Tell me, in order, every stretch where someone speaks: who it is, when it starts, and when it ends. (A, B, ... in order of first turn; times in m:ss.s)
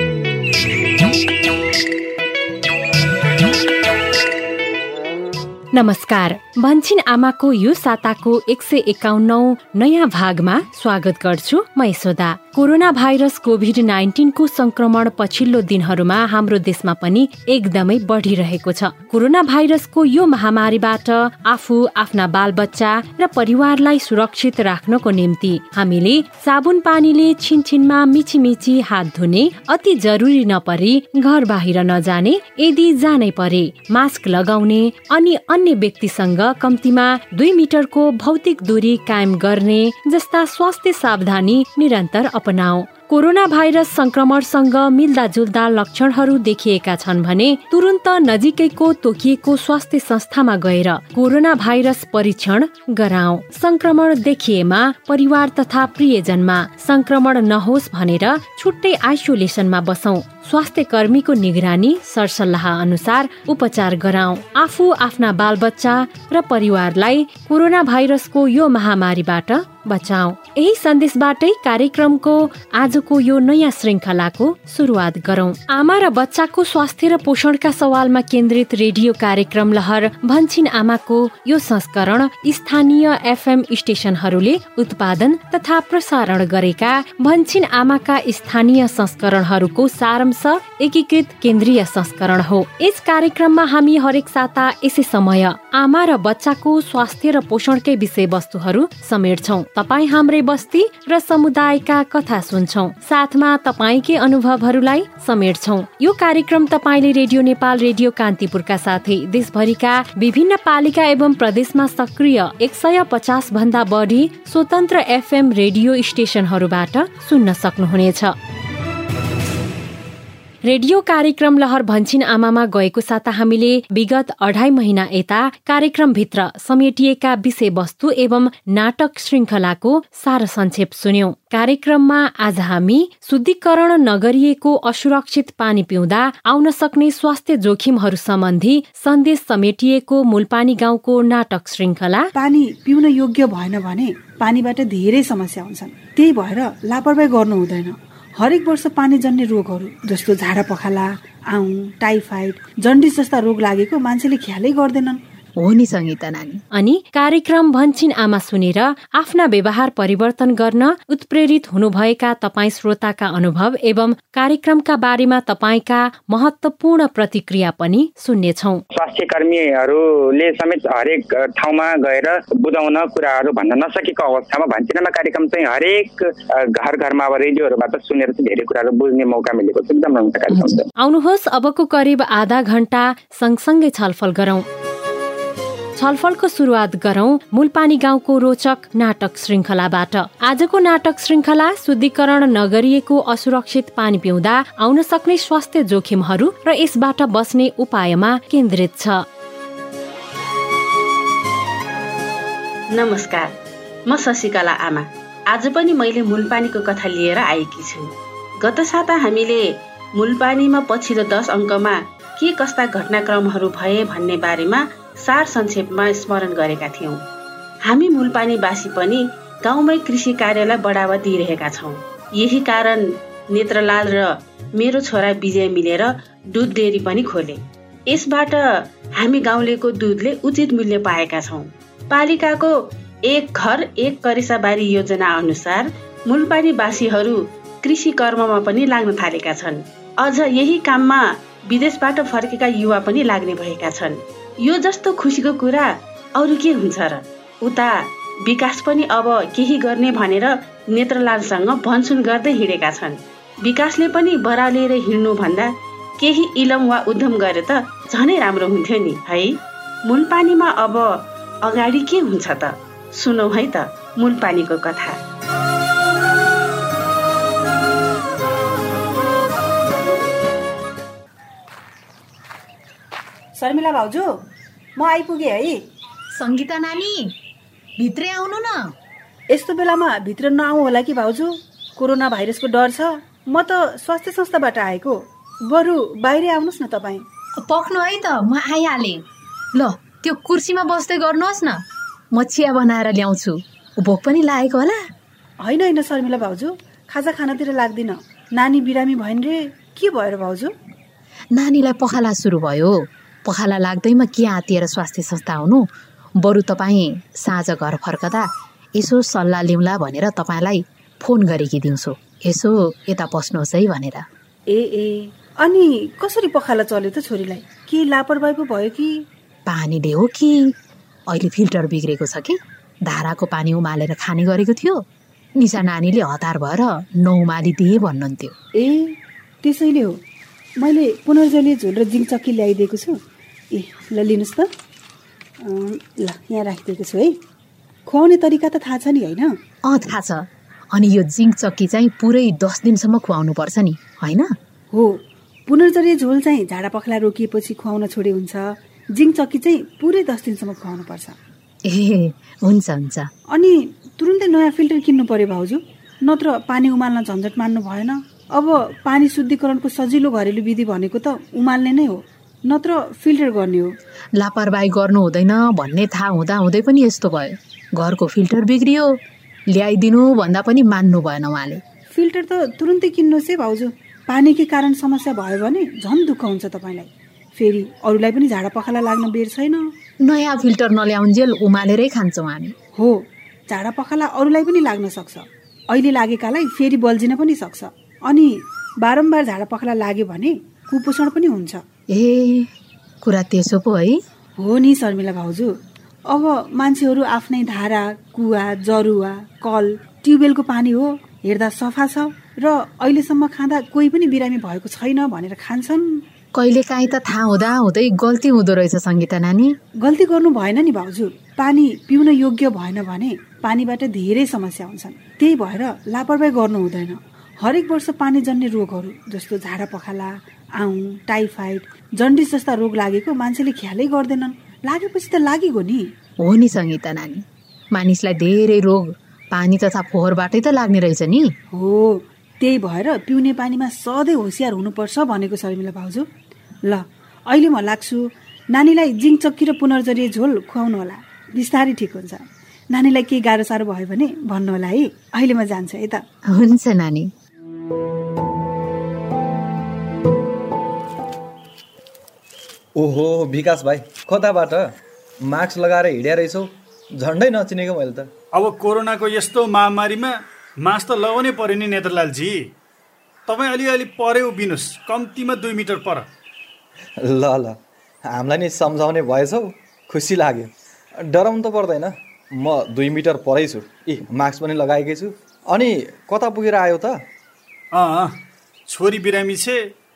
0:05.7-1:58.4 A
2:00.6-2:22.3 A
2:22.4-2:35.2 B
2:35.6-2:36.6 C
2:36.7-2:48.8 A
2:49.0-3:00.9 D
3:01.0-3:04.6 A
3:06.0-3:19.2 A
3:22.9-3:23.5 E
3:24.1-3:37.2 E
3:37.8-3:52.8 E
3:53.3-4:25.2 E
4:33.6-4:34.3 B
4:35.0-4:35.8 B
4:36.3-4:37.3 C
4:38.0-4:38.9 C
4:39.5-4:47.2 B
4:47.6-4:51.8 C
4:52.3-4:55.1 C
4:55.6-5:00.7 B
5:01.5-5:05.9 C
5:06.4-5:14.3 C
5:14.7-5:19.2 B
5:19.7-5:20.7 C
5:21.3-5:25.0 C
5:25.6-5:28.5 C
5:28.8-5:30.2 B
5:30.8-5:33.2 B
5:33.7-5:34.7 B
5:35.6-5:37.4 B
5:38.1-5:39.6 B
5:39.9-5:44.5 C
5:44.9-5:51.4 B
5:51.9-5:53.3 C
5:53.5-6:03.9 B
6:04.4-6:09.2 C
6:09.7-6:11.8 C
6:12.1-6:19.9 B
6:20.2-6:22.7 C
6:23.0-6:31.8 B
6:32.1-6:32.7 C
6:33.2-6:34.2 C
6:34.6-6:35.7 B
6:36.3-6:46.2 B
6:46.6-6:49.8 C
6:50.0-7:06.1 B
7:06.4-7:11.5 C
7:11.7-7:16.3 B
7:16.8-7:26.2 B
7:26.5-7:27.3 C
7:33.0-7:38.3 F
7:38.5-7:42.7 G
7:43.5-7:46.2 G
7:47.2-7:57.2 F
7:57.9-7:58.4 G
7:58.9-7:59.9 G